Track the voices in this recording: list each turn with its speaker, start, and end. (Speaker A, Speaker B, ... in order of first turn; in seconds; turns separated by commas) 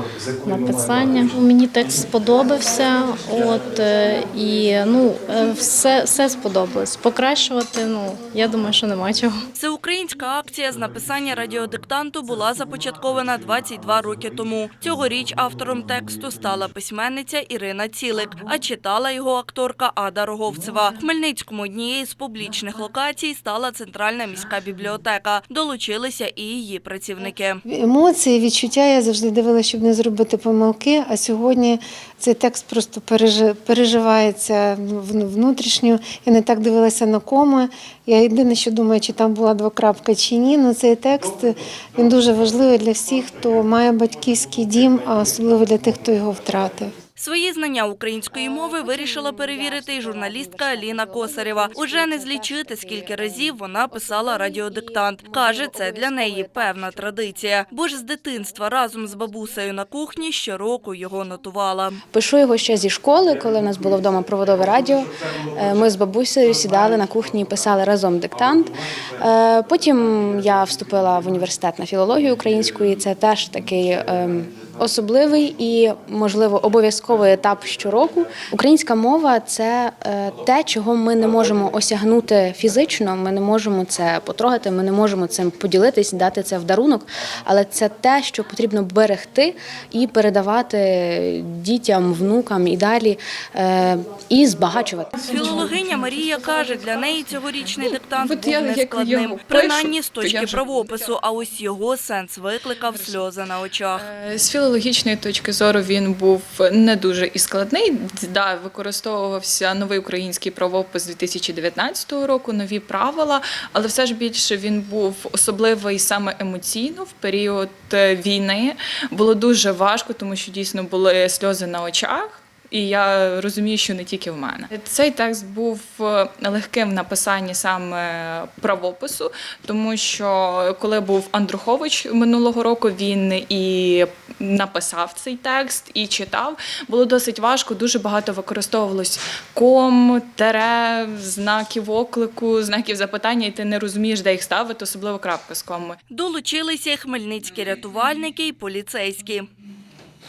Speaker A: 0.4-9.4, Speaker B: 9.5-27.6, Speaker C: 27.6-46.9, Speaker B: 47.1-62.0, Speaker D: 48.3-59.6, Speaker D: 62.1-95.3, Speaker E: 95.1-96.1, Speaker B: 95.3-104.0, Speaker E: 97.7-101.1, Speaker E: 102.9-103.3, Speaker E: 103.9-146.0, Speaker B: 146.1-149.5